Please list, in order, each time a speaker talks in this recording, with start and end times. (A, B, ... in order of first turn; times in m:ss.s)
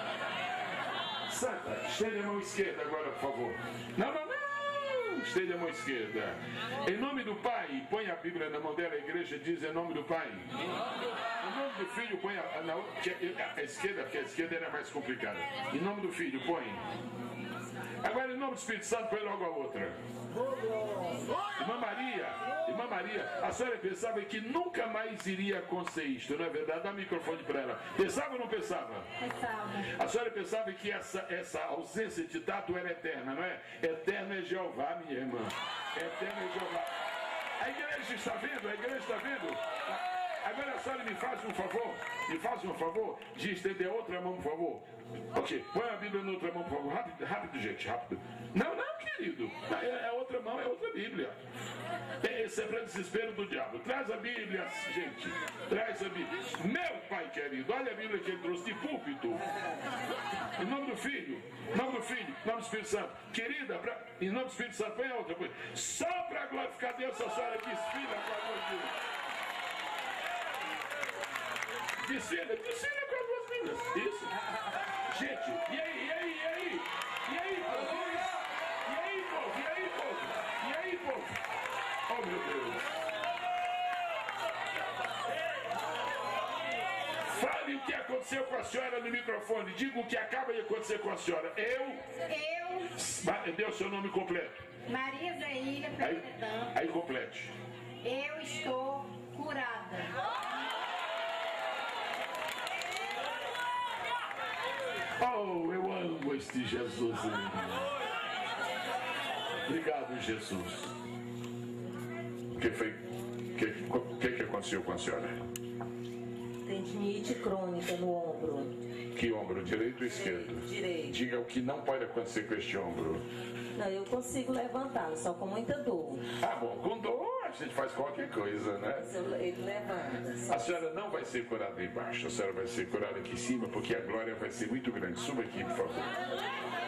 0:01.3-0:10.8 A
0:11.4-0:16.8 A
0:18.0-0:20.0 A
0:21.6-0:29.1 A
0:29.2-0:29.8 B
0:29.8-0:36.9 A
0:37.6-0:51.4 A
0:52.2-0:59.4 A
1:00.6-1:08.9 A
1:12.0-1:14.3 A
1:15.1-1:18.3 A
1:18.8-1:21.3 A
1:22.1-1:22.8 A
1:27.3-1:32.0 A
1:32.2-1:32.9 B
1:32.9-1:34.7 A
1:34.9-1:36.7 B
1:36.0-1:37.5 A
1:38.0-1:40.1 B
1:45.2-1:47.9 A
1:49.6-1:50.9 A
1:52.5-1:53.0 A
1:53.5-1:55.4 A
1:56.6-1:58.7 C
1:59.1-2:03.2 A
2:00.0-2:01.2 C
2:03.7-2:06.2 C
2:06.3-2:09.1 A
2:09.0-2:10.8 C
2:10.5-2:16.1 A